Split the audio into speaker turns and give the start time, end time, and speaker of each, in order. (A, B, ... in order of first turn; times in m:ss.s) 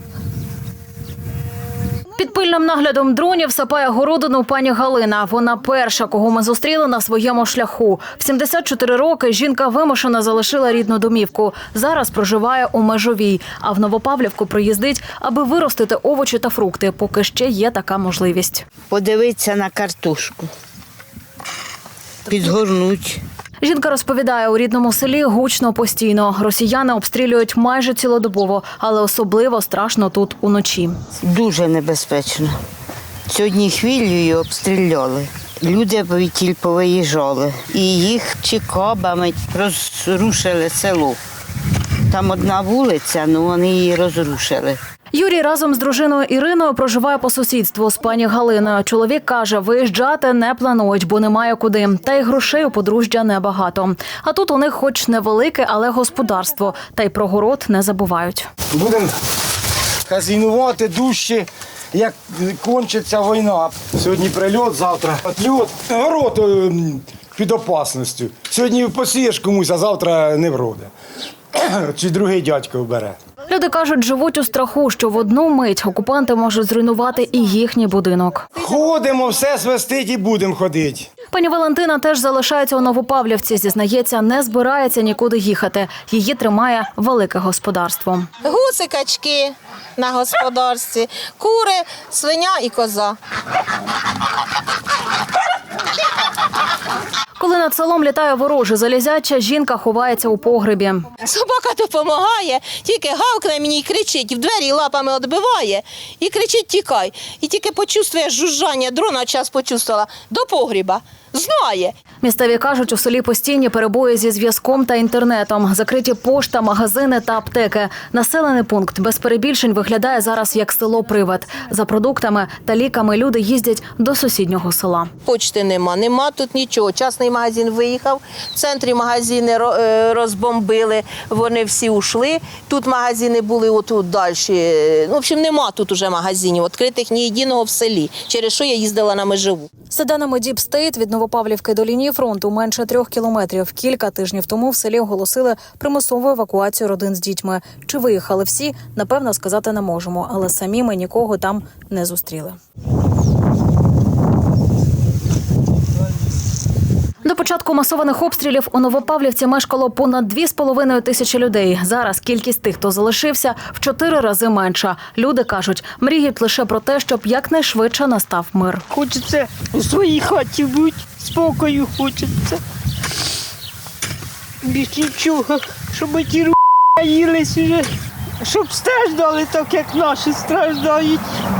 0:02.2-0:18.6 A
0:18.9-0:20.5 B
0:22.3-0:23.2 B
0:23.6-0:31.0 A
0:31.2-0:32.6 B
0:33.3-0:41.2 B
0:42.1-0:44.8 B
0:45.1-0:58.5 A
0:58.7-0:59.1 C
1:00.1-1:10.9 C
1:11.5-1:13.2 C
1:13.5-1:18.5 A
1:18.6-1:21.1 C
1:21.3-1:28.3 A
1:28.4-1:33.2 D
1:37.4-1:41.1 A
1:41.2-1:51.9 D
1:52.2-2:05.1 A
2:05.3-2:19.7 D
2:19.9-2:32.6 A
2:37.2-2:48.9 A
2:48.9-2:52.6 E
2:54.6-2:57.9 E
2:58.4-3:01.2 E